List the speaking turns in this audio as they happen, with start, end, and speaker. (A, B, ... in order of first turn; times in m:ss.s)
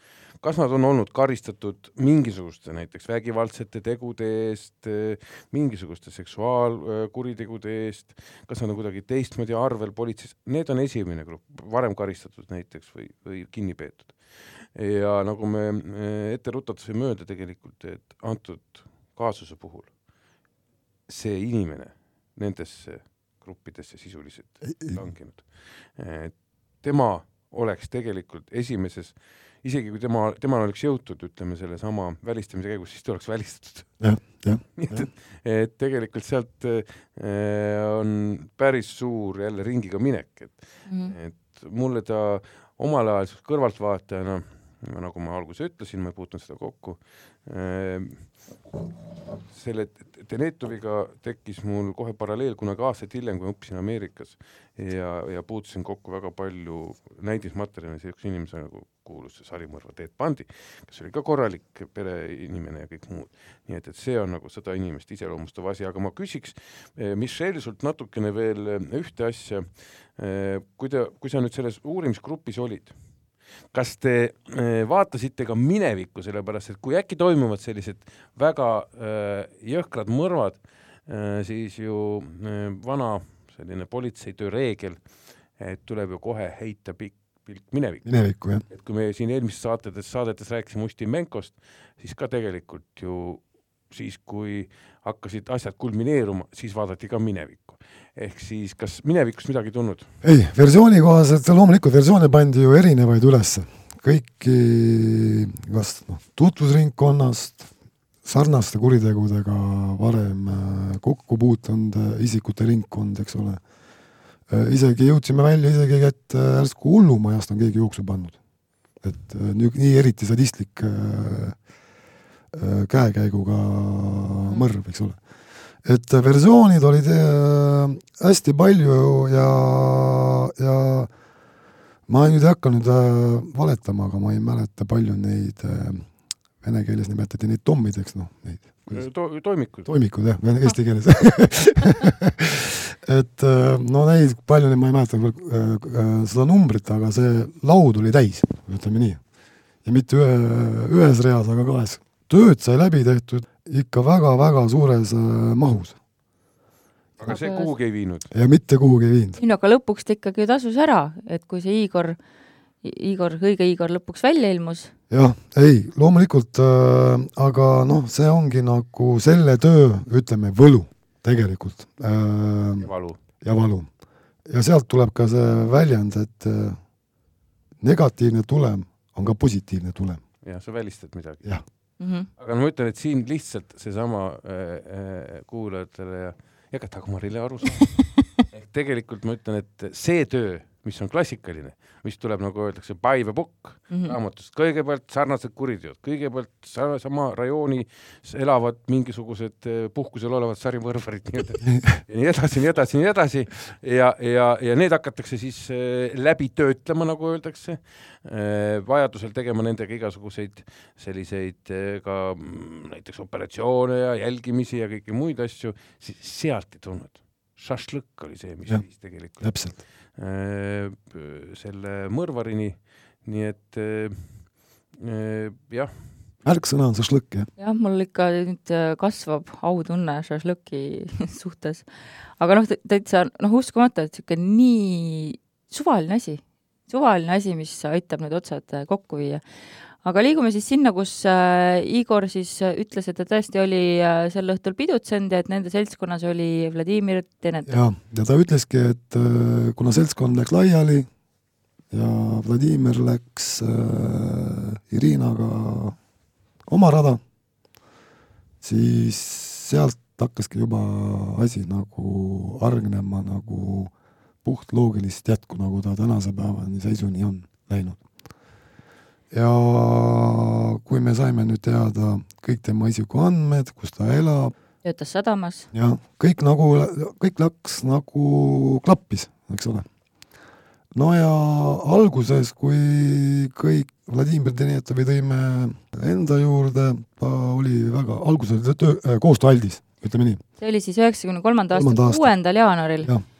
0:00.4-0:19.9 A
0:21.1-0:48.8 A
0:24.7-0:25.0 B
0:34.0-0:35.1 B
0:40.9-0:41.2 C
0:49.4-1:13.0 A
1:13.7-1:25.0 A
1:25.6-1:28.0 A
1:28.0-1:28.6 B
1:28.7-1:40.1 A
1:40.2-1:47.7 B
1:48.2-1:53.6 B
1:54.5-1:58.4 B
1:59.0-2:01.6 B
2:02.5-2:05.2 B
2:05.8-2:11.1 B
2:12.1-2:16.1 B
2:16.6-2:19.0 B
2:18.9-2:19.9 A
2:19.8-2:29.2 B
2:29.8-2:36.0 B
2:37.2-2:38.3 A
2:37.2-2:37.7 C
2:38.3-2:39.4 B
2:39.4-2:42.2 C
2:42.8-2:44.9 C
2:45.1-2:52.9 B
2:52.8-2:53.2 A
2:53.4-2:53.9 B
2:54.5-2:56.8 B
2:57.8-3:00.2 B
3:00.4-3:01.5 A
3:02.0-3:02.3 C
3:02.4-3:45.9 A
3:13.9-3:14.2 C
3:21.7-3:22.0 B
3:39.4-3:39.8 B
3:46.4-3:47.5 B
3:47.6-3:59.4 C
4:00.0-4:07.8 C
4:07.7-4:11.1 B
4:11.9-4:16.0 B
4:16.7-4:17.2 B
4:18.6-4:23.9 B
4:24.4-4:28.0 B
4:29.3-4:34.5 B
4:34.8-4:35.7 C
4:35.7-4:39.9 B
4:40.9-4:50.4 B
4:50.6-4:53.1 C
4:51.7-4:52.3 B